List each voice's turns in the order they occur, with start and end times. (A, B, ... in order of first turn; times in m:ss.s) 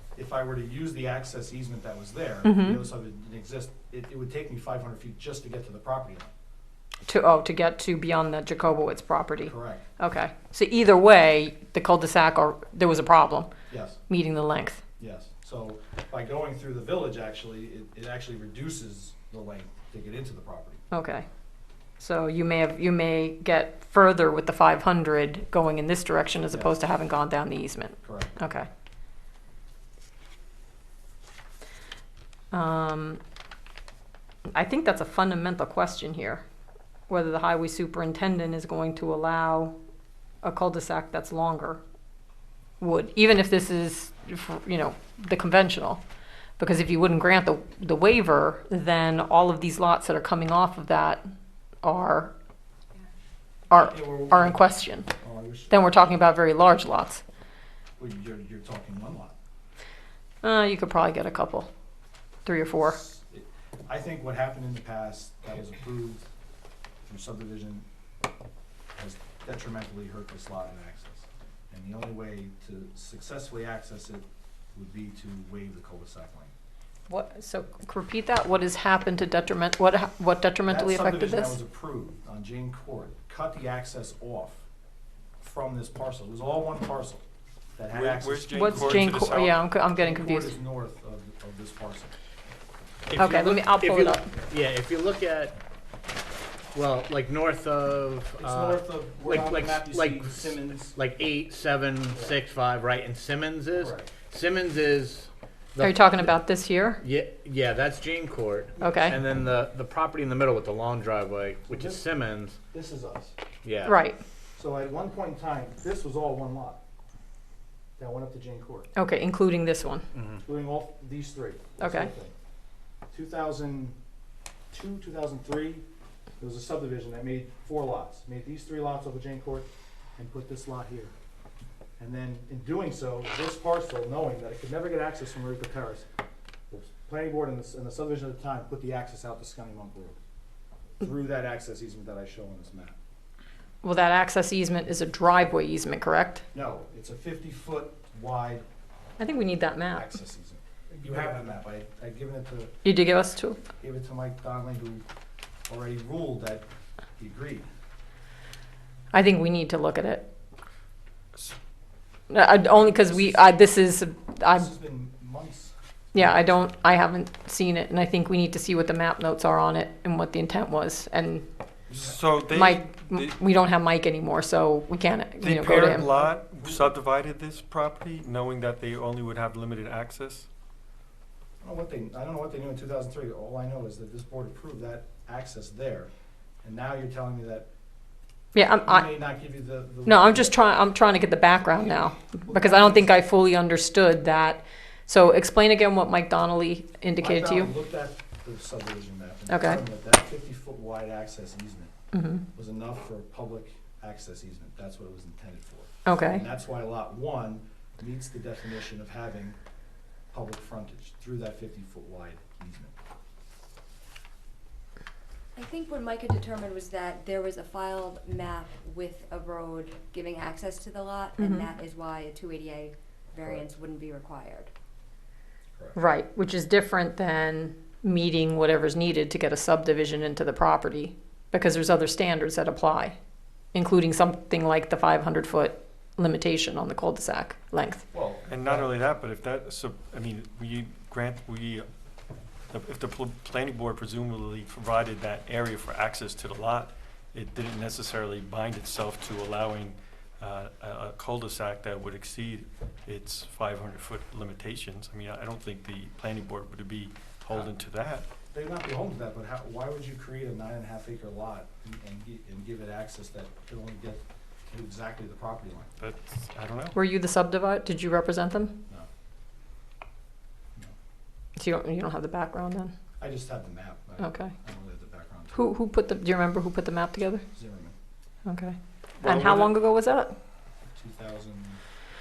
0:00.2-0:06.3 A
0:02.4-0:02.8 B
0:07.1-0:13.5 B
0:09.4-0:09.9 A
0:13.7-0:14.0 A
0:14.1-0:14.8 B
0:15.0-0:20.8 A
0:20.9-0:21.3 B
0:22.0-0:28.7 B
0:26.5-0:26.8 A
0:28.0-0:28.3 A
0:32.5-0:33.2 B
0:34.5-0:36.4 B
0:37.1-0:39.8 B
0:40.4-0:41.8 B
0:42.8-0:46.0 B
0:46.6-0:51.2 B
0:51.8-0:52.3 B
0:53.7-0:55.1 B
0:53.7-0:56.1 A
0:55.7-0:57.2 B
0:58.0-0:59.4 A
1:00.4-1:01.7 B
1:02.5-1:03.0 B
1:02.8-1:06.3 A
1:07.1-1:07.8 A
1:08.9-1:16.5 A
1:17.1-1:21.6 B
1:20.7-1:24.6 A
1:25.4-1:27.2 A
1:27.8-1:32.1 A
1:27.9-1:29.6 C
1:28.5-1:30.6 B
1:33.1-1:35.6 D
1:33.2-1:34.3 B
1:36.7-1:46.4 D
1:38.4-1:41.0 A
1:42.1-1:42.4 A
1:43.7-1:44.1 A
1:45.8-1:47.0 B
1:47.0-1:52.6 D
1:48.8-1:49.2 B
1:51.7-1:52.0 A
1:52.7-1:53.4 A
1:53.6-1:54.0 D
1:53.8-1:54.2 B
1:54.6-1:56.8 A
1:58.0-1:58.9 A
1:59.0-2:00.0 B
2:00.2-2:00.4 D
2:00.4-2:02.4 A
2:01.8-2:02.1 B
2:03.1-2:04.0 A
2:04.7-2:05.8 A
2:06.4-2:11.1 A
2:12.0-2:16.1 A
2:16.7-2:20.2 A
2:21.0-2:23.0 A
2:23.8-2:26.4 B
2:26.5-2:28.7 A
2:29.2-2:30.1 B
2:29.9-2:32.8 A
2:32.8-2:33.6 B
2:33.8-2:35.0 A
2:35.7-2:36.7 A
2:37.2-2:37.7 A
2:39.1-2:40.3 B
2:42.3-2:44.7 B
2:42.6-2:43.7 A
2:44.5-2:46.4 A
2:46.1-2:51.5 B
2:51.9-2:52.2 A
2:52.0-2:53.4 C
2:52.5-2:56.1 B
2:55.4-3:00.5 C
2:55.9-2:56.9 A
3:01.6-3:06.1 A
3:06.6-3:07.7 A
3:08.5-3:09.1 B
3:08.8-3:10.6 A
3:10.0-3:17.7 B
3:12.4-3:13.1 A
3:17.2-3:21.9 A
3:19.5-3:19.8 B
3:22.1-3:22.4 B
3:22.5-3:29.6 A
3:26.1-3:26.4 B
3:30.3-3:32.9 A
3:35.6-3:44.7 E
3:41.4-3:41.7 B
3:46.0-3:53.2 B
3:53.7-3:58.0 B
3:58.1-3:58.9 A
3:58.5-4:01.9 C
4:02.7-4:18.3 C
4:18.5-4:25.9 A
4:26.0-4:27.0 C
4:27.0-4:28.8 B
4:31.6-4:32.9 B
4:33.2-4:35.6 A
4:34.2-4:34.5 B
4:35.5-4:37.4 B
4:37.5-4:37.9 A
4:38.5-4:40.3 B
4:39.2-4:39.7 A
4:41.0-4:41.8 A